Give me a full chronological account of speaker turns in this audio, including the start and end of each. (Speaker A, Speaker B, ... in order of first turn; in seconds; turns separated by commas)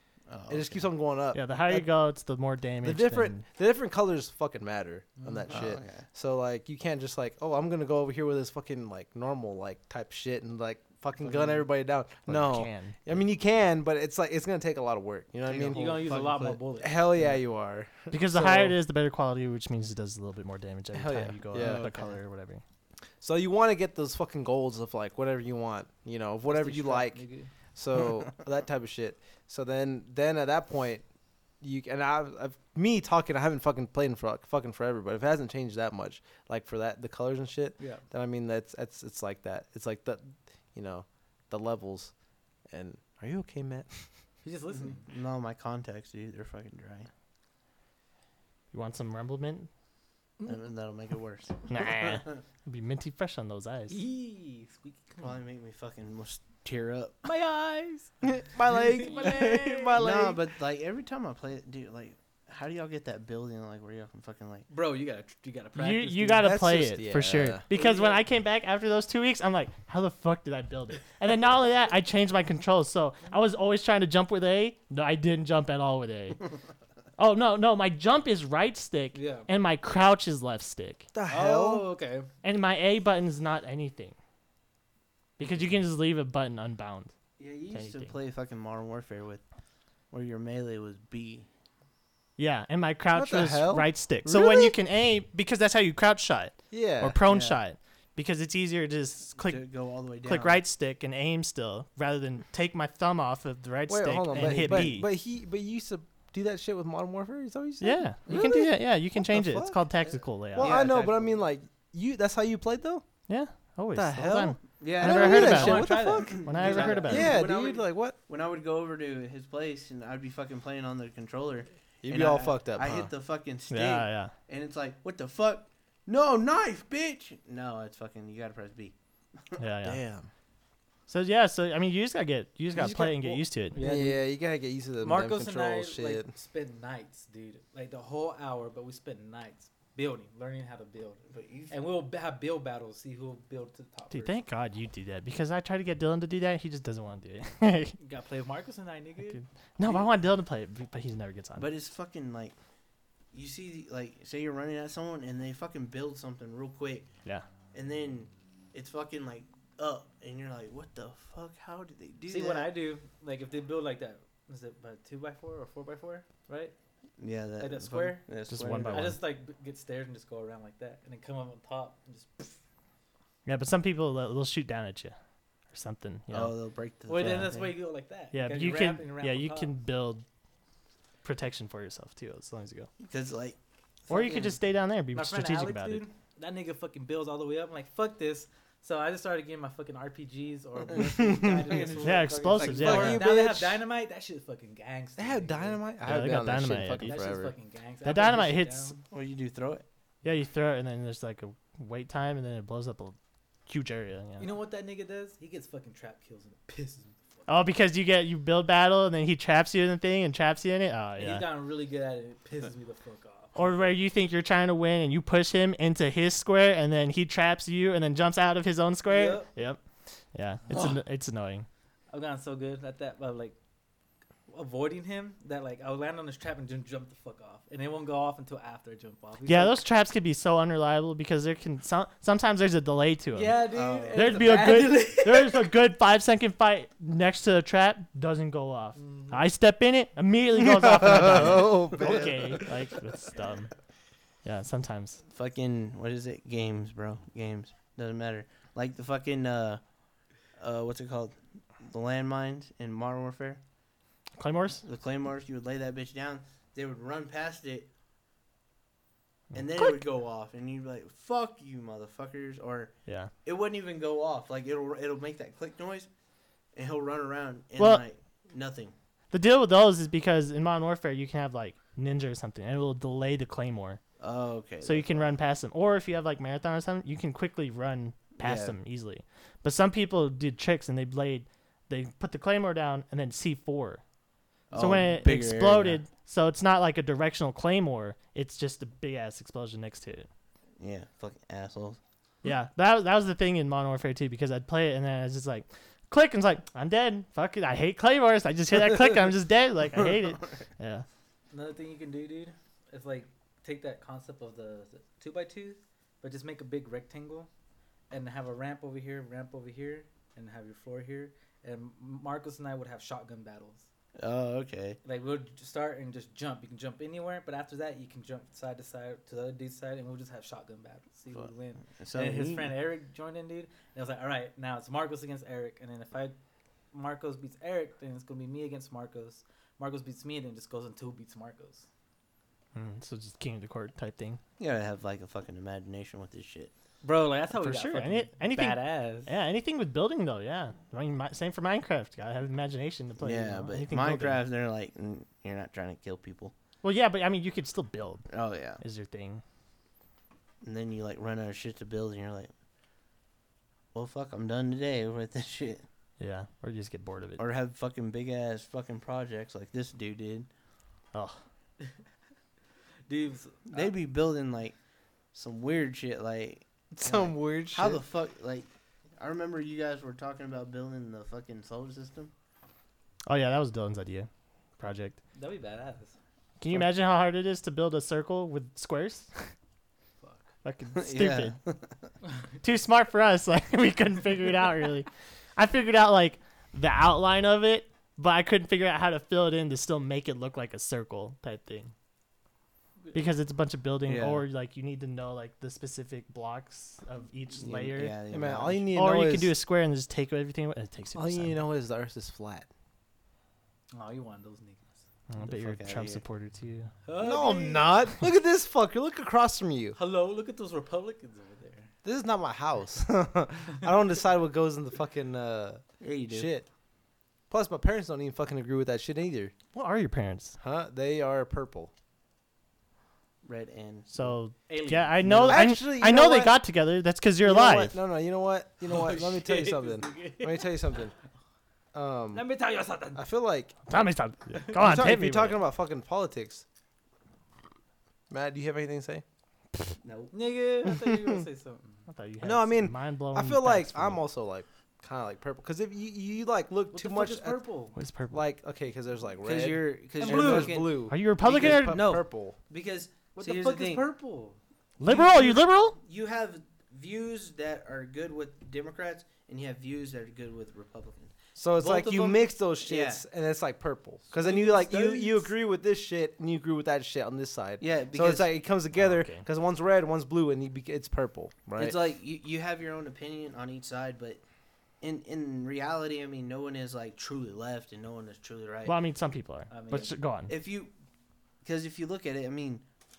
Speaker A: 0.3-0.9, Speaker B: 0.5-1.9, Speaker C: 1.3-3.4, Speaker B: 2.8-16.1, Speaker D: 5.2-5.5, Speaker A: 5.5-6.1, Speaker D: 11.2-11.6, Speaker C: 12.3-13.2, Speaker A: 15.4-16.6, Speaker D: 15.7-17.4, Speaker B: 16.8-18.8, Speaker C: 18.1-22.6, Speaker B: 20.9-22.0, Speaker A: 21.6-22.1, Speaker B: 23.2-27.2, Speaker D: 26.5-27.5, Speaker B: 27.8-31.0, Speaker B: 31.6-42.1, Speaker D: 37.8-38.0, Speaker B: 42.7-44.1, Speaker D: 44.4-45.0, Speaker A: 44.8-47.1, Speaker C: 48.7-49.7, Speaker A: 50.5-52.3, Speaker C: 51.7-54.0, Speaker D: 53.9-55.4, Speaker A: 55.2-57.2, Speaker D: 57.2-58.1, Speaker B: 58.2-60.4, Speaker D: 58.7-60.0, Speaker A: 60.0-64.7, Speaker D: 64.7-66.5, Speaker C: 65.8-76.6, Speaker B: 66.4-67.6, Speaker D: 67.7-68.2, Speaker C: 77.2-81.1, Speaker D: 79.1-79.5, Speaker B: 81.1-81.8, Speaker D: 81.3-82.3, Speaker C: 82.4-84.2, Speaker C: 85.4-87.1, Speaker A: 87.4-89.4, Speaker C: 87.7-88.1, Speaker A: 90.1-91.5, Speaker C: 92.4-99.7, Speaker B: 93.1-94.8, Speaker B: 96.7-97.2, Speaker A: 97.2-97.6, Speaker A: 99.4-100.6, Speaker C: 100.2-105.1, Speaker B: 103.9-109.8, Speaker C: 107.8-110.8, Speaker A: 110.0-111.3, Speaker B: 110.5-113.0, Speaker D: 110.6-111.3, Speaker C: 113.3-117.4, Speaker B: 114.0-116.5, Speaker A: 114.8-129.6, Speaker D: 115.3-117.3, Speaker B: 117.0-118.2, Speaker B: 122.0-123.1, Speaker C: 123.7-124.3, Speaker C: 129.6-130.0, Speaker B: 129.8-130.3, Speaker C: 131.1-133.8, Speaker B: 132.7-136.3, Speaker D: 133.7-134.3, Speaker D: 135.0-144.4, Speaker A: 141.3-141.8, Speaker C: 144.1-148.0, Speaker D: 148.0-149.4, Speaker C: 149.3-151.7, Speaker A: 151.6-152.6, Speaker A: 153.3-157.1, Speaker A: 157.7-162.7, Speaker D: 162.3-166.7, Speaker A: 167.2-169.1, Speaker D: 167.6-168.3, Speaker C: 168.5-169.2, Speaker D: 168.8-172.6, Speaker C: 173.4-175.2, Speaker C: 175.7-176.5, Speaker A: 176.3-177.7, Speaker D: 177.1-179.7, Speaker C: 177.2-177.7, Speaker C: 178.3-180.2, Speaker C: 181.2-182.9, Speaker A: 183.0-183.6, Speaker A: 184.1-184.4, Speaker D: 184.1-184.5, Speaker C: 184.1-186.1, Speaker D: 185.1-195.8, Speaker A: 190.9-193.2, Speaker B: 191.2-191.8, Speaker C: 192.0-193.3, Speaker B: 192.8-193.8, Speaker B: 195.2-197.5, Speaker C: 196.0-197.2, Speaker D: 197.0-199.0, Speaker C: 198.0-198.9, Speaker A: 199.1-199.8, Speaker C: 200.2-204.5, Speaker D: 204.4-207.5, Speaker C: 207.5-211.5, Speaker D: 211.2-213.6, Speaker C: 213.6-219.8, Speaker D: 219.1-219.5, Speaker C: 220.3-221.7, Speaker D: 222.1-223.6, Speaker D: 224.5-229.8, Speaker C: 229.4-243.7, Speaker D: 233.3-235.7, Speaker A: 233.7-234.7, Speaker D: 239.0-239.4, Speaker B: 240.7-242.3, Speaker A: 241.9-242.2, Speaker C: 244.4-245.2, Speaker A: 245.3-249.8, Speaker A: 250.6-253.6, Speaker C: 254.4-254.8, Speaker A: 254.8-257.9, Speaker A: 259.5-266.1, Speaker C: 259.5-260.0, Speaker A: 266.8-268.9, Speaker C: 267.8-268.0, Speaker C: 269.3-274.0, Speaker A: 274.2-275.3, Speaker C: 274.8-284.0, Speaker A: 278.4-278.8, Speaker A: 284.7-286.0, Speaker C: 284.7-290.3, Speaker A: 290.8-292.0, Speaker C: 292.4-301.1, Speaker D: 301.5-307.5, Speaker D: 308.1-313.9, Speaker A: 314.2-315.0, Speaker D: 315.0-326.4, Speaker A: 321.3-322.7, Speaker D: 326.9-331.9, Speaker C: 332.7-334.4, Speaker A: 334.6-336.7, Speaker D: 337.0-339.3, Speaker C: 337.5-344.4, Speaker A: 343.2-346.5, Speaker C: 346.8-348.3, Speaker A: 348.3-348.8, Speaker C: 348.8-349.4, Speaker A: 350.6-352.5, Speaker A: 353.9-355.9, Speaker C: 356.2-357.4, Speaker A: 357.4-360.5, Speaker C: 361.1-361.4, Speaker D: 363.1-363.9, Speaker A: 363.7-364.8, Speaker A: 365.3-372.3, Speaker B: 366.9-368.0, Speaker C: 373.3-375.2, Speaker D: 375.4-376.2, Speaker C: 376.6-379.5, Speaker D: 380.2-380.5, Speaker C: 380.6-381.6, Speaker A: 381.0-382.1, Speaker C: 382.6-391.9, Speaker C: 393.1-398.1, Speaker A: 394.1-394.4, Speaker A: 397.6-398.9, Speaker B: 398.3-399.5, Speaker C: 398.9-401.6, Speaker B: 401.1-402.7, Speaker D: 403.9-405.0, Speaker C: 405.3-406.9, Speaker A: 405.4-406.2, Speaker D: 407.1-408.0, Speaker B: 407.2-410.0, Speaker D: 410.0-411.9, Speaker B: 412.0-416.7, Speaker A: 416.0-416.5, Speaker B: 417.5-419.5, Speaker C: 419.7-420.6, Speaker B: 420.6-421.9, Speaker A: 423.4-424.4, Speaker C: 424.1-428.0, Speaker D: 424.7-425.6, Speaker B: 425.2-426.6, Speaker B: 427.4-431.1, Speaker D: 428.8-430.9, Speaker B: 431.9-432.5, Speaker D: 432.3-433.2, Speaker B: 433.1-433.8, Speaker C: 433.9-435.6, Speaker B: 434.8-436.6, Speaker B: 438.3-439.2, Speaker A: 440.0-440.3, Speaker D: 440.3-442.1, Speaker C: 442.1-444.2, Speaker B: 442.4-447.6, Speaker D: 446.9-448.0, Speaker C: 448.0-448.4, Speaker B: 448.3-452.6, Speaker A: 449.4-454.1, Speaker D: 450.2-450.9, Speaker C: 451.1-452.0, Speaker D: 453.4-454.6, Speaker C: 455.0-456.0, Speaker A: 455.0-463.2, Speaker B: 461.6-472.0, Speaker A: 464.3-465.4, Speaker A: 467.8-468.6, Speaker C: 468.9-469.4, Speaker A: 471.8-474.4, Speaker A: 475.0-479.0, Speaker C: 478.9-480.5, Speaker D: 479.7-480.1, Speaker A: 480.5-480.9, Speaker A: 481.6-482.9